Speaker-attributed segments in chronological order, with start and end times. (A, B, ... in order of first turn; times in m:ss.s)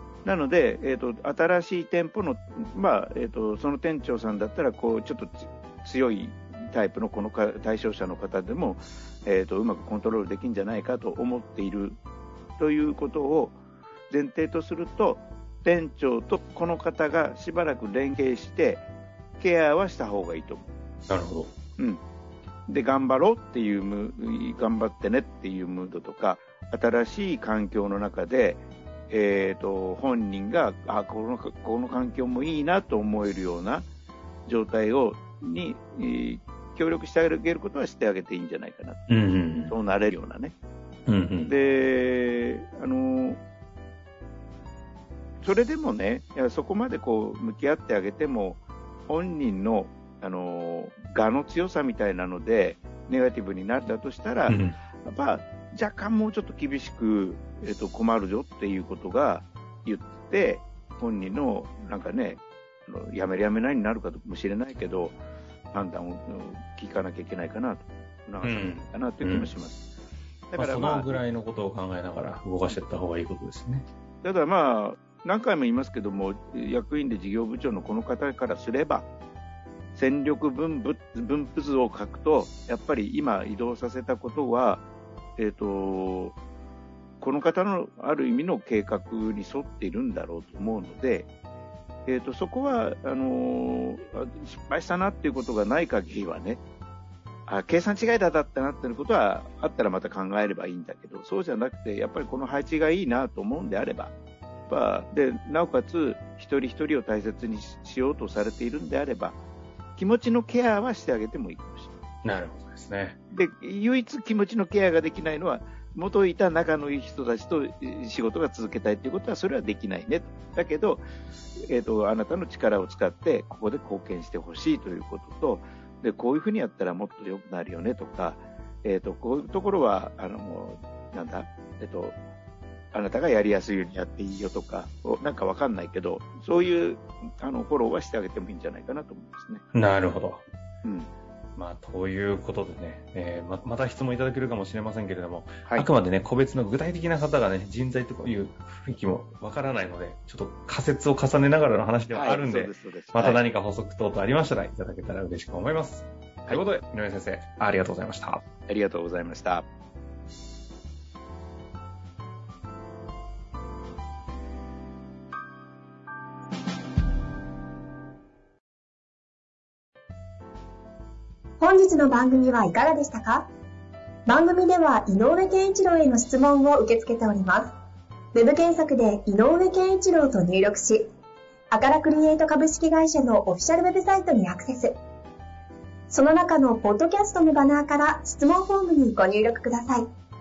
0:00.2-0:12.0 A
0:12.6-0:13.6 A
0:14.1-0:18.8 A
0:19.4-0:20.7 A
0:21.1-0:21.5 B
0:22.7-0:33.9 A
0:34.5-0:39.0 A
0:39.1-0:39.8 B
0:39.7-0:40.6 A
0:41.1-0:41.5 B
0:41.4-0:43.4 A
0:45.4-1:05.2 A
0:54.5-0:54.8 B
1:05.7-1:09.8 A
1:08.4-1:09.5 B
1:10.5-1:11.2 A
1:10.6-1:13.9 B
1:14.2-1:19.1 A
1:19.9-1:24.8 A
1:25.4-1:26.4 A
1:27.2-1:31.3 A
1:32.1-1:36.6 A
1:37.5-1:44.1 A
1:44.7-1:49.4 A
1:50.0-1:51.9 A
1:52.2-1:53.2 B
1:53.3-2:01.0 A
2:01.6-2:12.2 A
2:12.9-2:19.6 A
2:19.7-2:20.4 B
2:20.8-2:21.1 A
2:21.6-2:38.4 B
2:32.1-2:33.4 A
2:38.7-2:39.7 A
2:51.6-2:53.5 C
2:54.3-2:57.8 C
2:58.3-3:01.1 C
3:01.7-3:05.0 C
3:06.1-3:10.1 C